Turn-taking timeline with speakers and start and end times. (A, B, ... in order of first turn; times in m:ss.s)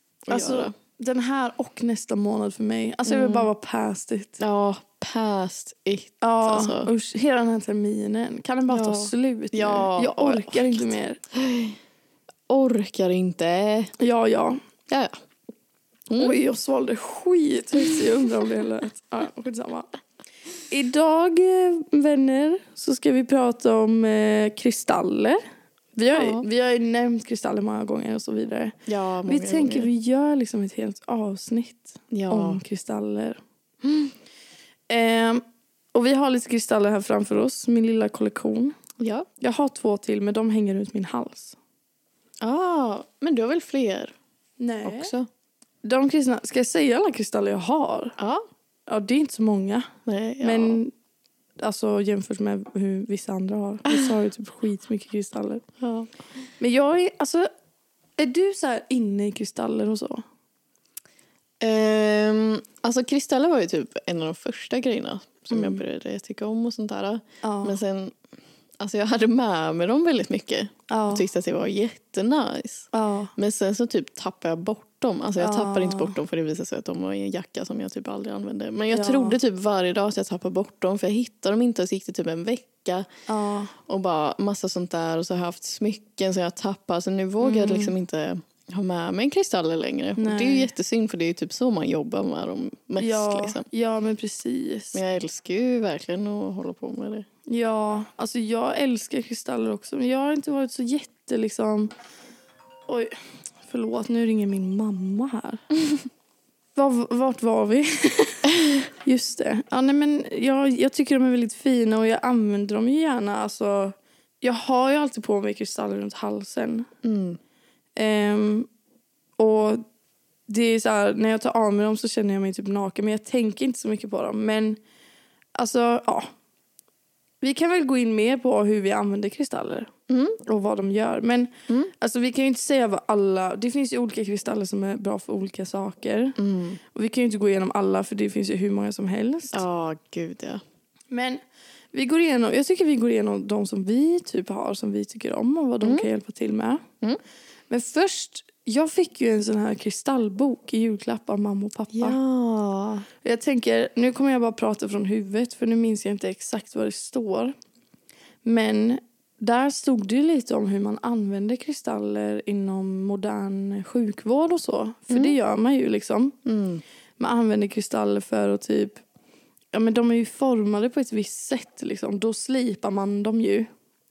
0:00.3-0:00.7 A
0:00.3-0:04.4 B
0:03.0-0:03.5 A
0:04.4-0:06.9 A
0:06.2-0:11.2 B
0:08.7-0:11.8 A
0:12.5-0:13.9 A
0:14.0-0:14.6 B
0:16.1-0:16.4 A
0:16.2-0:19.9 B
0:20.7-0:25.4 B
0:25.9-0:33.4 B
0:26.1-0:26.4 A
0:28.9-0:29.9 A
0:32.1-0:32.6 A
0:33.8-0:34.1 A
0:34.9-0:35.4 B
0:35.9-0:38.7 B
0:39.0-0:39.3 A
0:39.4-0:41.6 B
0:42.4-0:44.1 A
0:44.6-0:45.1 B
0:44.8-0:45.3 A
0:45.8-0:48.2 B
0:48.2-0:48.4 A
0:48.9-0:49.9 B
0:50.0-0:50.8 A
0:50.4-0:50.9 B
0:51.6-0:55.6 B
0:53.9-0:54.1 A
0:55.8-0:56.1 A
0:56.6-0:57.5 B
0:58.2-1:00.2 B
1:01.6-1:08.2 A
1:05.5-1:05.8 B
1:07.4-1:07.8 B
1:08.8-1:23.1 A
1:10.9-1:11.3 B
1:12.9-1:13.3 B
1:15.4-1:16.2 B
1:18.9-1:19.4 B
1:23.3-1:23.7 B
1:23.8-1:33.6 A
1:27.4-1:27.9 B
1:30.2-1:30.7 B
1:33.0-1:35.0 B
1:34.9-1:37.3 A
1:37.5-1:41.9 B
1:42.9-1:43.1 B
1:43.6-1:45.7 B
1:46.8-1:48.5 B
1:49.0-1:56.9 B
1:57.0-1:57.4 A
1:58.0-1:58.7 B
1:59.4-1:59.8 B
2:00.5-2:04.8 B
2:05.6-2:06.3 B
2:07.4-2:09.9 B
2:10.1-2:10.4 A
2:10.4-2:16.4 B
2:16.4-2:16.8 A
2:16.9-2:19.6 B
2:19.5-2:20.6 A
2:21.1-2:21.4 B
2:21.9-2:26.8 B
2:25.8-2:26.1 A
2:27.7-2:32.2 B
2:31.9-2:33.1 A
2:33.2-2:37.5 B
2:38.4-2:46.4 B
2:45.1-2:45.4 A
2:46.4-2:46.8 A
2:47.2-2:49.0 B
2:49.7-2:53.7 B